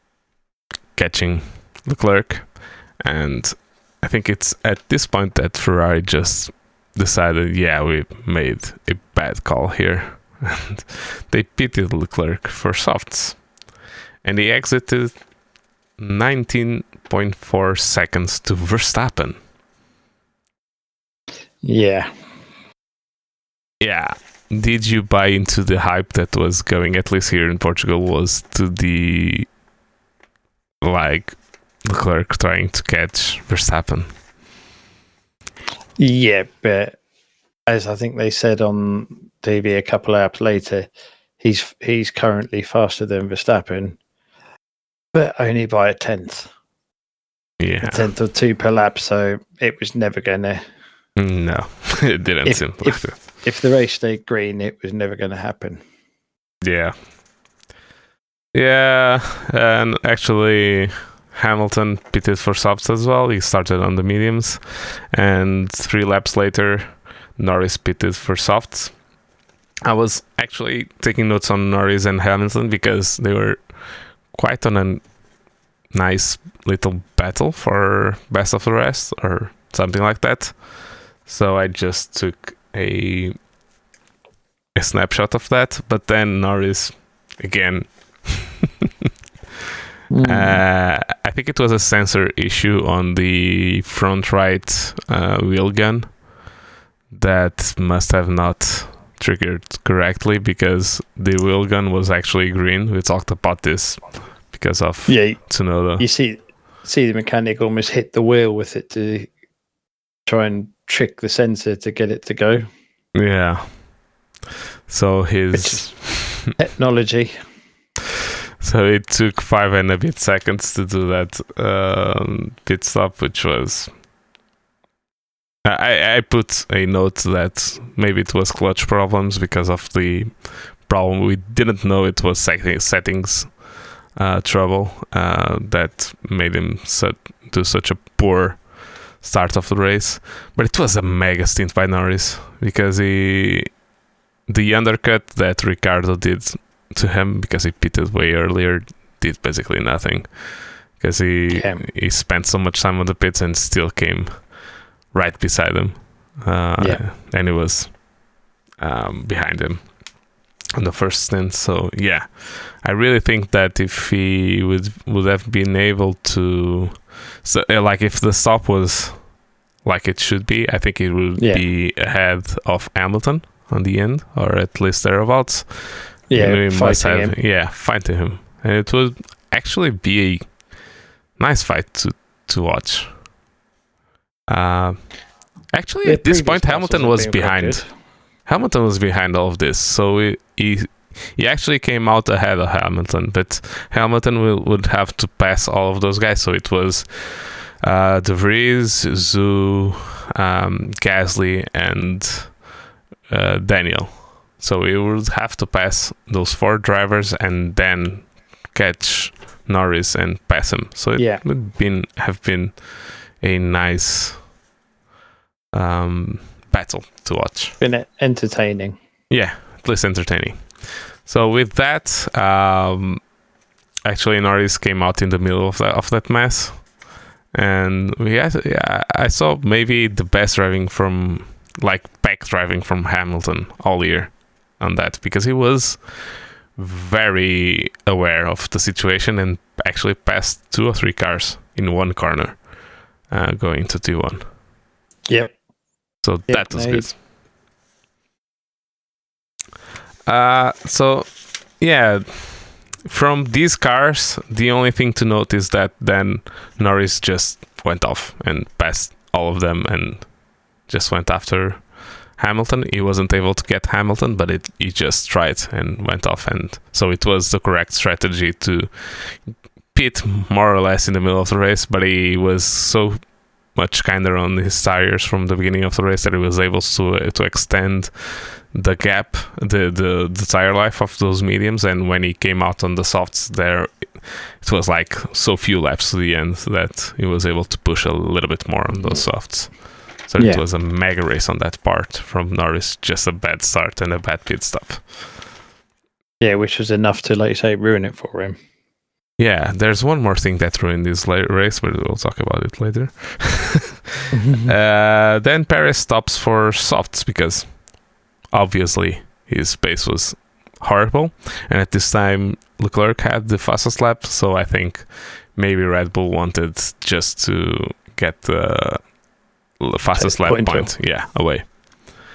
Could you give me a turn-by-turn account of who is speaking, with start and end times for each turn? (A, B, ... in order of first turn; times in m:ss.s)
0:00.9-0:13.6 A
0:14.2-0:15.3 A
0:16.0-0:19.4 A
0:21.6-0:22.1 B
0:23.8-0:29.5 A
0:30.8-0:34.1 A
0:36.0-0:37.0 B
0:37.7-0:40.9 B
0:41.4-0:44.0 B
0:45.1-0:46.5 B
0:47.6-0:48.1 A
0:47.8-0:50.6 B
0:51.2-0:53.2 A
0:52.4-0:55.8 B
0:56.6-0:57.1 A
0:58.5-1:09.1 A
1:09.8-1:15.2 A
1:15.8-1:23.4 A
1:24.8-1:28.7 A
1:30.1-1:30.6 B
1:30.2-1:36.3 A
1:37.1-1:46.1 A
1:45.1-1:49.3 B
1:50.3-1:52.7 B
1:53.1-1:54.0 A
1:54.9-1:56.5 A
1:55.5-1:57.4 B
1:58.6-2:04.0 A
2:05.6-2:23.8 A
2:24.5-2:34.6 A
2:31.5-2:31.8 B
2:35.1-2:38.1 A
2:36.8-2:37.0 B
2:38.8-2:40.0 A
2:40.7-3:00.7 A
2:51.4-2:51.6 B
2:56.3-2:57.4 B
3:01.4-3:03.3 A
3:04.5-3:22.6 A
3:06.0-3:07.9 B
3:23.3-3:34.5 A
3:31.2-3:31.4 B
3:35.7-3:37.8 A
3:37.8-3:39.0 B
3:39.3-3:43.3 A
3:44.0-3:46.9 A
3:47.5-4:02.7 A
4:03.2-4:04.5 A
4:05.3-4:05.5 B
4:06.2-4:07.2 A
4:06.5-4:07.2 B
4:10.3-4:55.5 A
4:49.0-4:49.2 B
4:50.4-4:50.6 B
4:56.4-4:58.6 B
4:59.4-5:19.2 A
5:04.3-5:04.7 B
5:19.7-5:21.8 A
5:20.2-5:21.0 B